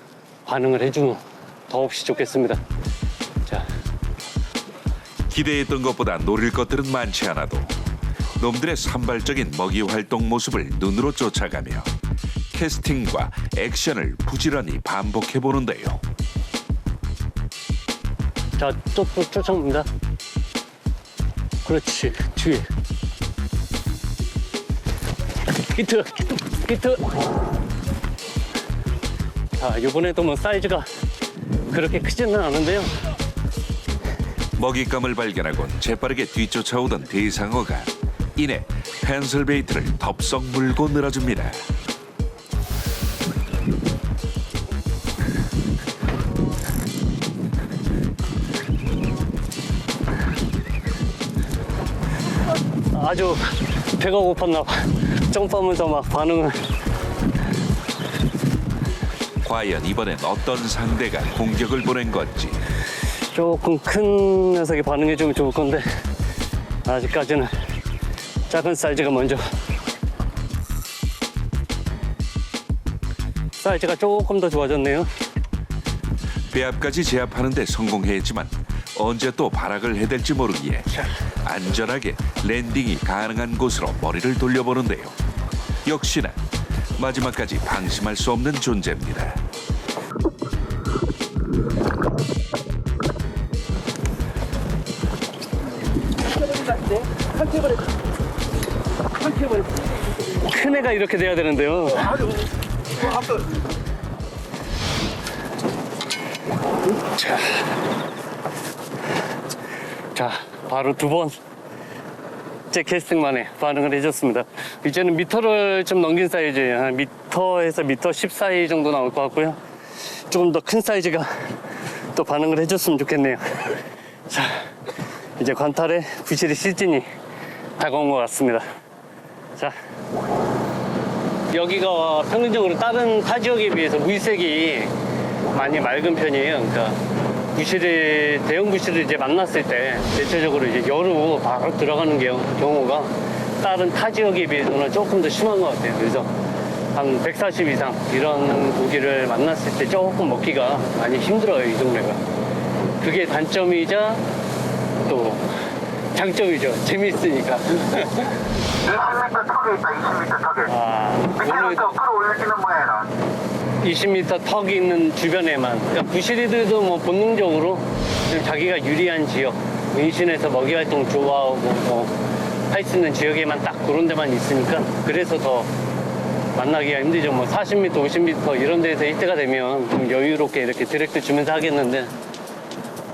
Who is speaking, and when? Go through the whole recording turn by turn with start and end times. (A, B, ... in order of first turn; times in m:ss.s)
0:00.4-0:02.6 A
0:05.3-0:07.7 B
0:08.4-0:11.9 B
0:12.5-0:16.0 B
0:18.6-0:19.9 A
0:21.6-0:22.7 A
0:25.7-0:27.0 A
0:29.6-0:30.9 A
0:31.7-0:32.9 A
0:34.6-0:41.6 B
0:52.9-0:56.7 A
0:59.4-1:02.6 B
1:03.3-1:05.8 A
1:06.8-1:07.5 A
1:08.5-1:09.4 A
1:13.6-1:15.1 A
1:16.5-1:25.2 B
1:25.8-1:26.4 B
1:27.0-1:29.4 B
1:40.3-1:42.3 A
1:47.0-1:47.7 A
1:50.1-1:51.4 A
1:52.7-2:01.6 A
2:02.1-2:03.8 A
2:04.3-2:04.7 A
2:05.4-2:07.1 A
2:07.8-2:08.6 A
2:11.5-2:14.9 A
2:15.5-2:17.0 A
2:17.5-2:26.3 A
2:26.9-2:32.2 A
2:33.0-2:34.2 A
2:35.0-2:35.5 A
2:36.1-2:38.3 A
2:38.8-2:40.7 C
2:40.7-2:42.0 A
2:41.4-2:43.1 C
2:43.8-2:52.2 A
2:52.7-2:55.7 A
2:56.5-3:02.1 A